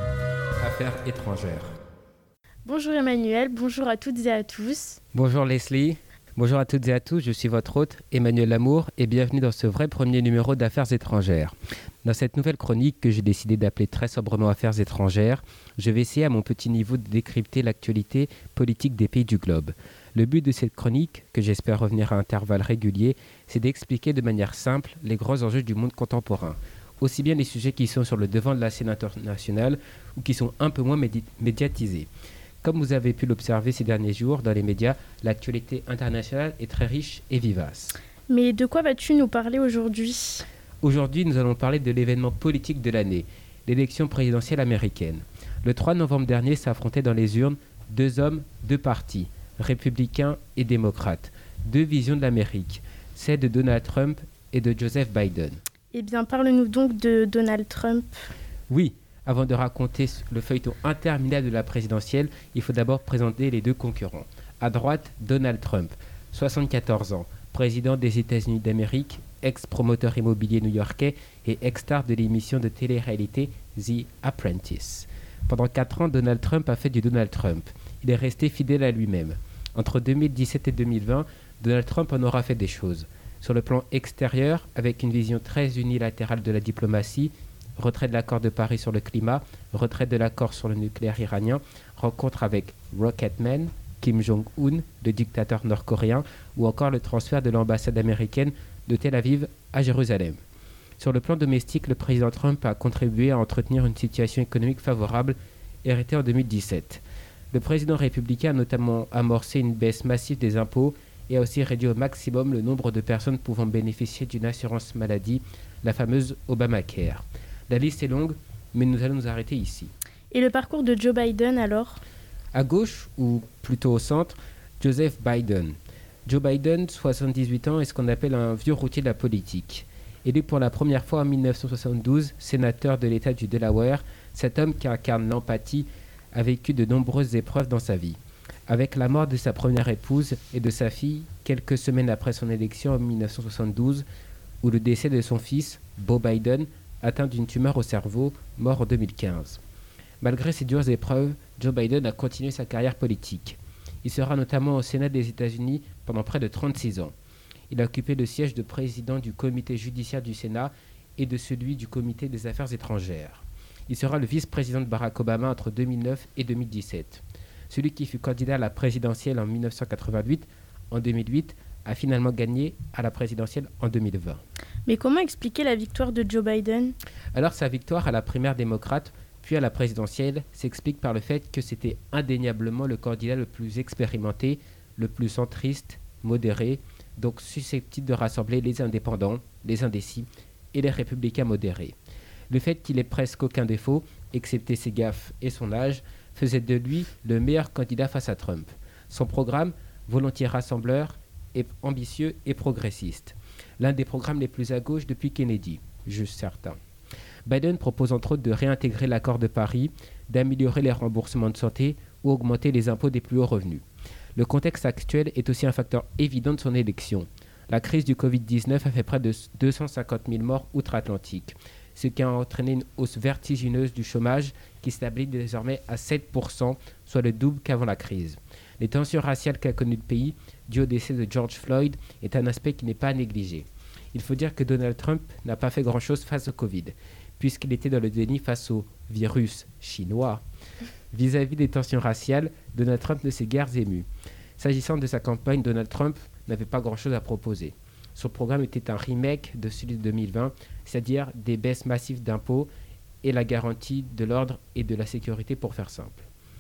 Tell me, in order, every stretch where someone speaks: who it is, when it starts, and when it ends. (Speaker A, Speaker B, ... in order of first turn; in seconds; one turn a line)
Speaker A: 0.6-1.8
Speaker B: 2.6-5.0
Speaker A: 5.1-32.1
Speaker A: 32.6-38.0
Speaker B: 38.3-40.5
Speaker A: 40.8-55.6
Speaker B: 55.9-58.1
Speaker A: 58.7-100.4
Speaker A: 101.0-119.9
Speaker B: 120.3-122.0
Speaker A: 122.5-125.8
Speaker A: 126.3-138.2
Speaker A: 138.7-144.1
Speaker A: 144.6-149.6
Speaker A: 150.2-157.1
Speaker A: 157.7-174.4
Speaker B: 174.9-176.9
Speaker A: 177.3-191.9
Speaker A: 192.5-206.8
Speaker A: 207.5-213.8
Speaker A: 214.4-240.4
Speaker A: 241.1-244.1
Speaker A: 244.6-252.7
Speaker A: 253.2-256.3